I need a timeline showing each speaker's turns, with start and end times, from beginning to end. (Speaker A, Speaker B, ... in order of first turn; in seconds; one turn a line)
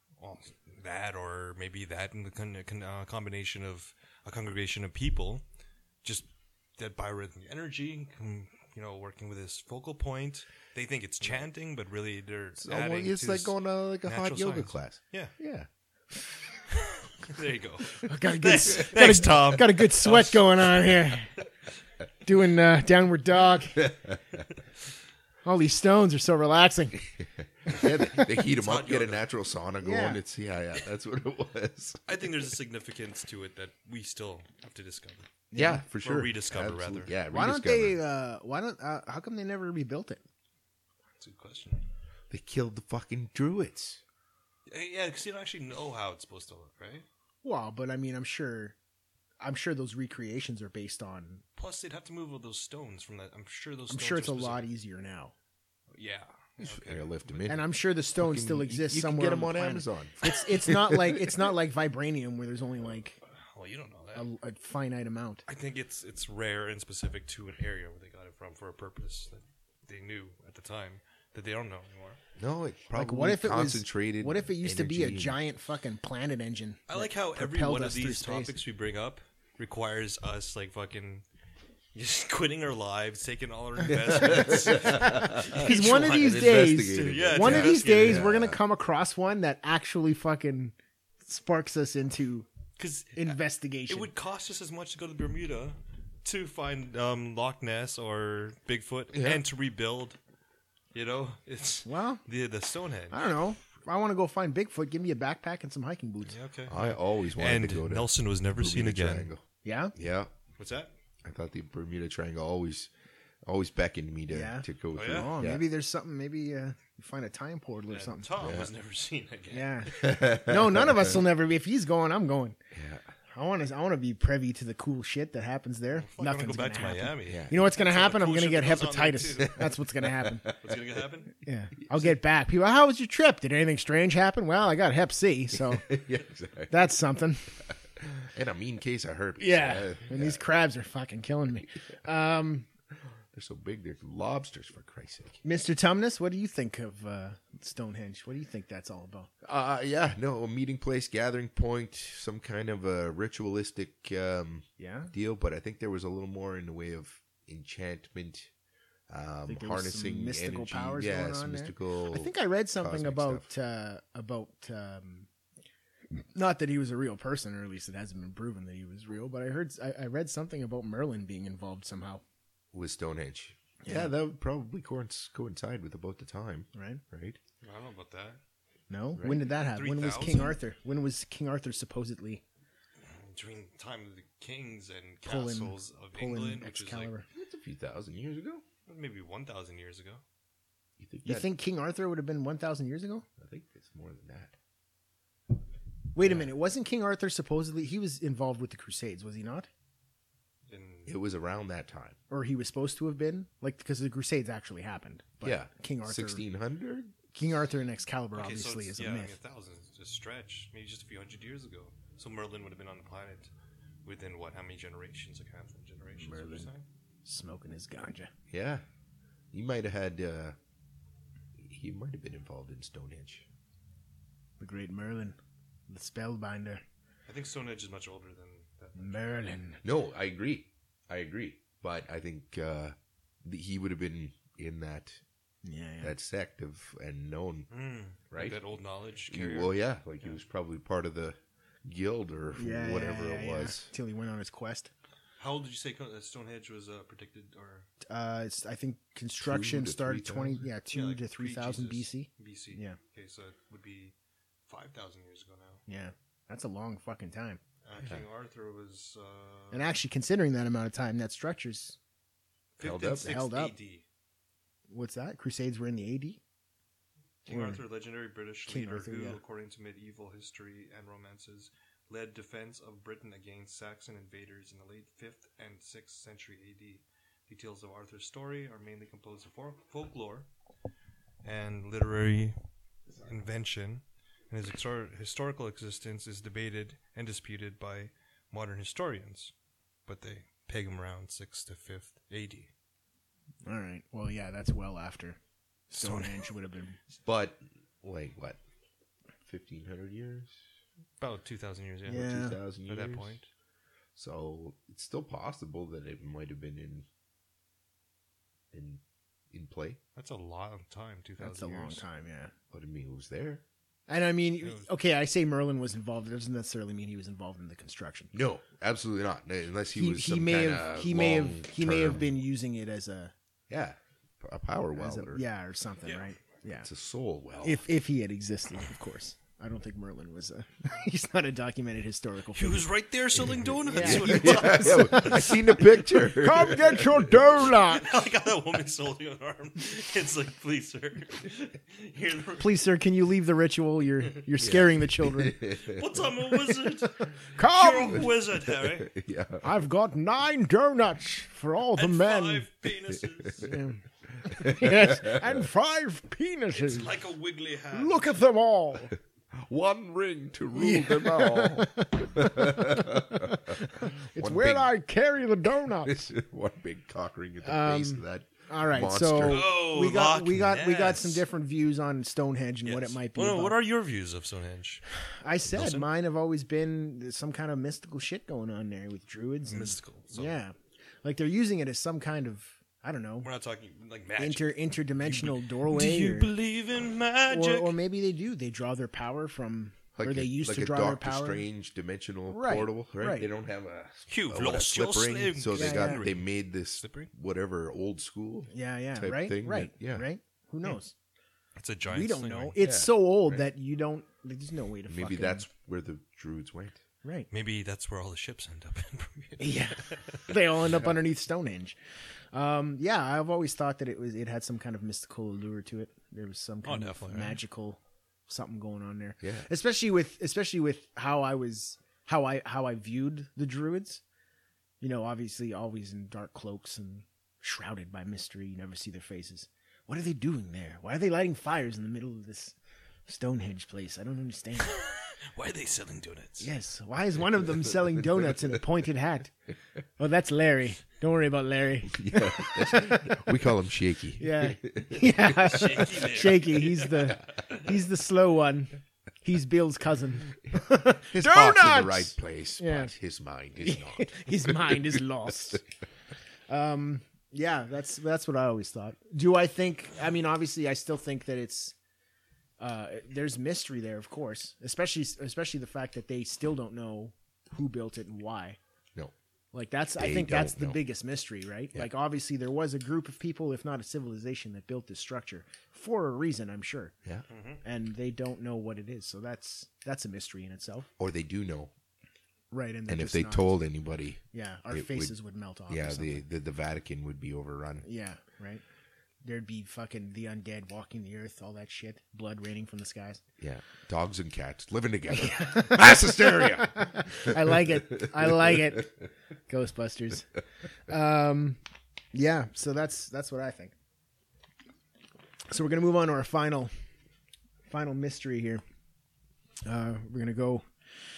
Speaker A: 0.2-5.4
Speaker A: 6.0-15.3
Speaker B: 12.6-15.7
Speaker A: 16.7-21.5
Speaker C: 18.0-21.3
Speaker C: 22.2-23.9
Speaker B: 23.8-24.4
Speaker C: 25.4-27.0
Speaker B: 27.2-32.0
Speaker A: 28.2-29.2
Speaker C: 29.8-30.2
Speaker A: 32.1-35.3
Speaker C: 35.5-35.8
Speaker B: 35.5-38.0
Speaker A: 36.0-37.1
Speaker C: 37.3-40.2
Speaker A: 41.2-41.9
Speaker B: 42.3-44.0
Speaker A: 44.7-47.0
Speaker C: 47.4-48.8
Speaker C: 49.4-51.4
Speaker A: 51.5-54.6
Speaker C: 53.9-55.3
Speaker A: 55.9-57.5
Speaker B: 56.6-57.6
Speaker C: 57.5-63.2
Speaker B: 58.1-61.3
Speaker A: 63.4-64.2
Speaker C: 64.1-65.4
Speaker A: 65.5-72.2
Speaker B: 72.4-75.4
Speaker C: 72.9-78.5
Speaker A: 76.9-81.2
Speaker A: 81.9-88.3
Speaker B: 83.9-88.6
Speaker C: 85.5-92.5
Speaker A: 92.8-93.4
Speaker C: 93.1-94.1
Speaker A: 93.9-100.2
Speaker B: 99.1-99.4
Speaker A: 100.9-103.2
Speaker C: 101.8-102.2
Speaker C: 103.1-106.4
Speaker A: 106.3-109.3
Speaker B: 106.7-109.4
Speaker C: 109.6-109.9
Speaker B: 109.9-110.3
Speaker A: 110.6-110.9
Speaker B: 111.2-112.9
Speaker B: 113.4-115.6
Speaker C: 114.3-118.4
Speaker A: 114.9-115.3
Speaker A: 117.9-120.0
Speaker B: 118.4-118.7
Speaker C: 119.5-122.6
Speaker B: 119.9-121.2
Speaker B: 122.7-123.0
Speaker C: 123.3-130.5
Speaker A: 126.0-129.7
Speaker B: 127.2-127.6
Speaker B: 130.2-130.8
Speaker A: 130.6-131.3
Speaker C: 131.4-135.9
Speaker B: 135.5-136.8
Speaker C: 136.7-137.5
Speaker B: 138.0-140.4
Speaker C: 139.4-142.7
Speaker B: 143.3-145.4
Speaker C: 145.4-149.3
Speaker B: 149.4-158.5
Speaker C: 154.8-155.1
Speaker B: 159.1-163.5
Speaker C: 159.5-165.3
Speaker C: 166.2-172.2
Speaker B: 172.7-177.4
Speaker C: 173.8-174.1
Speaker C: 176.7-177.0
Speaker A: 177.6-178.4
Speaker C: 178.9-182.4
Speaker B: 179.2-179.4
Speaker A: 179.6-180.6
Speaker A: 183.0-187.1
Speaker C: 185.2-187.2
Speaker B: 187.3-188.6
Speaker A: 188.9-190.2
Speaker B: 191.0-191.5
Speaker C: 191.2-193.2
Speaker B: 193.4-194.5
Speaker C: 196.1-199.7
Speaker B: 196.2-196.5
Speaker A: 200.7-201.2
Speaker B: 201.1-202.2
Speaker C: 202.3-206.4
Speaker B: 205.4-207.1
Speaker C: 207.3-209.4
Speaker A: 208.3-213.5
Speaker A: 214.0-216.8
Speaker C: 216.2-216.7
Speaker C: 217.2-218.3
Speaker B: 218.5-218.8
Speaker B: 219.5-220.6
Speaker B: 221.6-223.4
Speaker C: 224.6-225.4
Speaker C: 225.9-226.8
Speaker A: 227.3-229.2
Speaker C: 229.0-229.8
Speaker B: 229.8-235.2
Speaker C: 235.6-236.1
Speaker B: 236.0-237.7
Speaker A: 237.7-240.4
Speaker B: 238.3-238.6
Speaker B: 239.3-243.9
Speaker C: 242.6-244.9
Speaker A: 245.4-247.9
Speaker C: 248.0-253.0
Speaker B: 249.4-250.7
Speaker A: 250.9-254.1
Speaker A: 254.7-255.8
Speaker C: 255.9-257.6
Speaker A: 257.8-260.0
Speaker C: 259.7-262.0
Speaker A: 262.8-264.0
Speaker B: 262.8-263.3
Speaker C: 263.2-263.7
Speaker C: 264.9-266.4
Speaker A: 267.4-280.5
Speaker C: 267.5-267.8
Speaker C: 268.7-269.4
Speaker A: 281.4-282.6
Speaker A: 283.2-289.5
Speaker A: 290.1-292.7
Speaker C: 293.6-295.4
Speaker C: 295.9-297.0
Speaker A: 296.0-296.5
Speaker B: 297.1-298.6
Speaker B: 299.4-300.6
Speaker A: 301.2-302.3
Speaker C: 302.1-302.6
Speaker B: 302.1-303.4
Speaker A: 302.9-303.5
Speaker B: 304.1-307.1
Speaker B: 308.7-310.0
Speaker A: 310.1-312.0
Speaker C: 311.4-312.5
Speaker B: 312.7-313.6
Speaker C: 314.1-318.3
Speaker A: 314.6-314.9
Speaker B: 318.3-322.3
Speaker C: 319.9-323.3
Speaker B: 323.7-325.4
Speaker C: 324.9-326.9
Speaker B: 326.8-327.8
Speaker C: 327.6-332.9
Speaker A: 332.5-335.6
Speaker B: 333.4-337.3
Speaker C: 333.9-338.1
Speaker A: 337.7-342.7
Speaker C: 342.6-345.6
Speaker B: 344.6-346.1
Speaker A: 345.8-349.1
Speaker C: 347.5-348.3
Speaker B: 348.7-349.6
Speaker C: 349.6-352.6
Speaker A: 351.9-353.7
Speaker C: 353.6-357.1
Speaker B: 354.4-355.6
Speaker A: 356.7-358.4
Speaker C: 357.9-359.1
Speaker B: 359.5-364.9
Speaker C: 360.7-366.2
Speaker B: 366.0-369.7
Speaker C: 367.6-373.8
Speaker A: 369.4-371.4
Speaker A: 372.8-375.0
Speaker C: 375.1-383.5
Speaker A: 375.7-376.1
Speaker A: 379.7-380.6
Speaker A: 383.4-388.0
Speaker C: 384.4-386.5
Speaker C: 387.5-391.6
Speaker B: 390.1-400.2
Speaker C: 392.5-393.5
Speaker A: 394.3-396.4
Speaker C: 395.7-396.2
Speaker A: 397.0-397.3
Speaker C: 398.7-401.1
Speaker A: 401.8-402.8
Speaker C: 402.1-405.6
Speaker B: 402.8-403.6
Speaker B: 405.1-407.0
Speaker A: 407.5-410.5
Speaker C: 409.6-412.0
Speaker C: 412.5-424.2
Speaker A: 416.8-417.6
Speaker B: 419.4-419.7
Speaker C: 425.0-435.0
Speaker A: 434.8-436.7
Speaker C: 436.6-439.5
Speaker C: 440.2-443.5
Speaker B: 442.1-445.4
Speaker C: 444.4-453.1
Speaker A: 445.4-447.9
Speaker B: 451.3-455.2
Speaker C: 453.8-455.8
Speaker C: 456.7-461.9
Speaker C: 462.8-468.8
Speaker C: 469.7-477.1
Speaker B: 470.2-471.0
Speaker A: 477.5-477.8
Speaker C: 477.8-481.1
Speaker B: 481.2-481.9
Speaker C: 482.7-483.8
Speaker B: 483.1-485.3
Speaker C: 484.5-486.4
Speaker B: 485.9-488.1
Speaker C: 488.0-488.8
Speaker C: 489.4-493.4
Speaker B: 493.6-499.0
Speaker C: 495.3-499.1
Speaker C: 499.7-500.5
Speaker C: 501.1-501.8
Speaker C: 502.3-503.9
Speaker C: 505.7-506.9
Speaker C: 507.9-508.8
Speaker C: 509.8-510.9